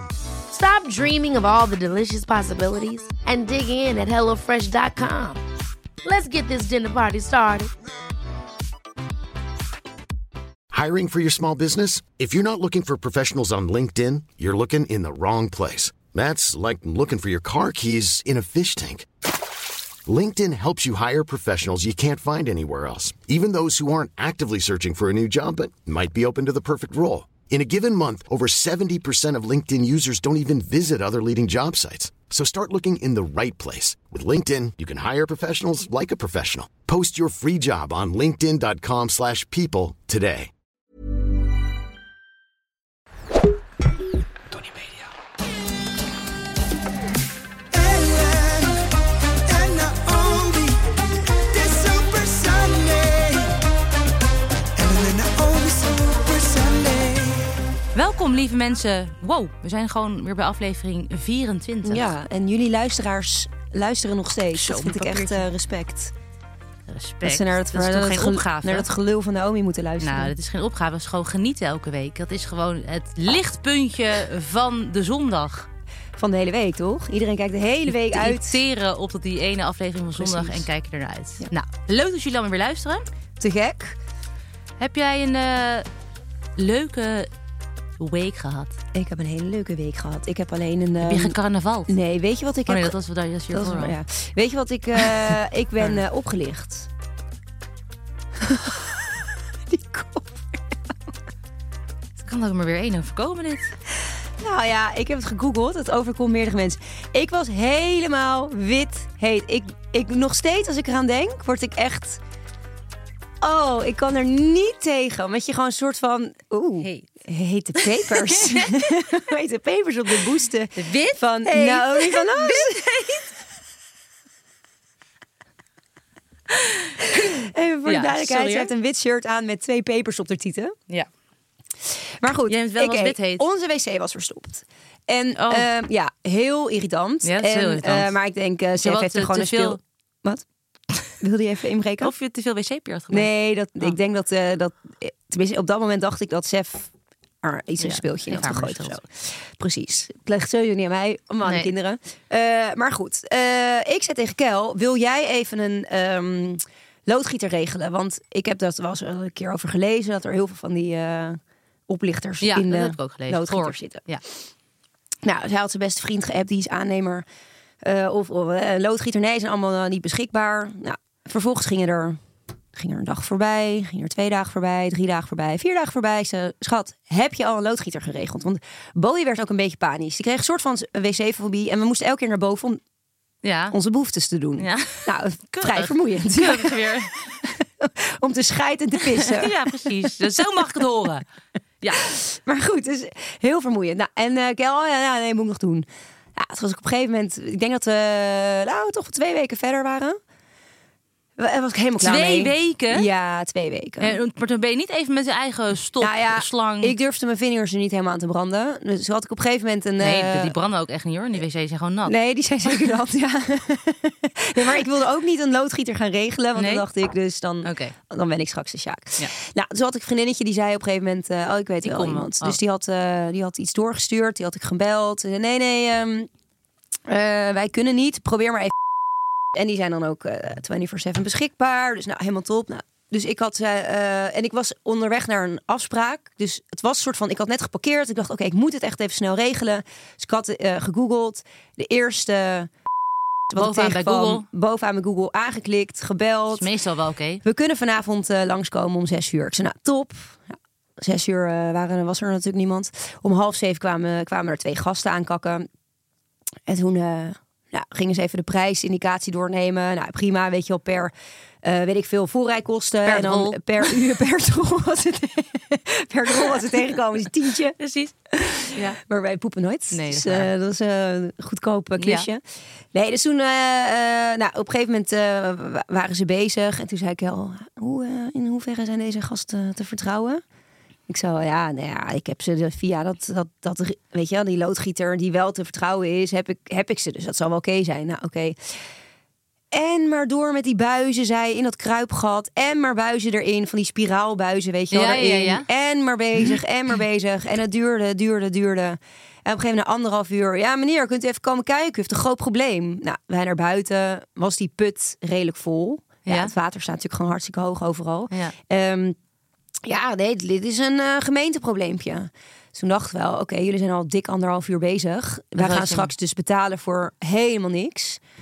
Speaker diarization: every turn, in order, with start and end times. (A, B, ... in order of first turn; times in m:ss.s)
0:00.5-0:05.4 A
0:06.0-0:07.7 A
0:10.7-0:19.1 B
0:20.1-0:40.5 B
0:44.5-0:44.9 C
0:47.7-0:48.8 C
0:49.4-0:50.8 C
0:51.5-0:53.5 C
0:54.8-0:57.6 C
0:58.0-1:02.1 D
1:01.8-1:06.1 E
1:04.5-1:05.5 D
1:06.9-1:08.9 D
1:07.2-1:10.3 E
1:10.0-1:15.7 D
1:16.2-1:18.6 E
1:17.9-1:23.1 D
1:20.2-1:20.7 E
1:23.4-1:24.0 E
1:24.8-1:25.9 D
1:26.6-1:27.3 D
1:28.0-1:28.8 D
1:28.9-1:31.4 E
1:31.0-1:31.9 D
1:31.9-1:33.0 E
1:32.7-1:34.0 D
1:33.5-1:36.9 E
1:38.4-1:41.1 E
1:42.2-1:43.8 D
1:44.4-1:52.2 E
1:53.4-2:02.8 E
1:56.8-1:57.1 D
1:57.8-1:59.1 D
2:00.8-2:03.3 D
2:06.5-2:08.7 D
2:07.1-2:10.8 E
2:12.2-2:20.4 E
2:12.5-2:13.4 D
2:15.4-2:15.7 D
2:17.2-2:18.1 D
2:18.8-2:19.8 D
2:21.2-2:22.1 E
2:22.0-2:23.3 D
2:23.1-2:26.9 E
2:27.4-2:44.0 E
2:27.8-2:29.0 D
2:31.4-2:31.7 D
2:42.4-2:44.2 D
2:45.2-2:47.2 E
2:47.8-2:52.2 E
2:52.7-3:02.8 E
3:03.4-3:03.8 D
3:03.7-3:07.1 E
3:04.6-3:07.6 D
3:07.8-3:10.5 E
3:09.0-3:11.3 D
3:11.8-3:12.1 D
3:12.0-3:20.2 E
3:21.4-3:24.2 E
3:22.0-3:23.1 D
3:24.0-3:27.0 D
3:26.0-3:30.5 E
3:30.0-3:32.1 D
3:32.1-3:46.3 E
3:36.6-3:36.8 D
3:37.6-3:37.9 D
3:41.8-3:42.6 D
3:47.1-3:48.8 E
3:49.5-4:02.7 E
4:03.5-4:06.7 E
4:03.6-4:04.5 D
4:06.5-4:07.4 D
4:07.4-4:15.7 E
4:16.7-4:27.8 E
4:23.1-4:24.0 D
4:27.8-4:29.0 D
4:28.3-4:32.4 E
4:29.9-4:30.5 D
4:32.0-4:32.3 D
4:32.9-4:40.4 E
4:41.1-4:48.8 E
4:49.7-5:09.2 E
4:54.9-4:55.7 D
5:06.3-5:06.5 D
5:09.8-5:18.2 E
5:15.6-5:16.1 D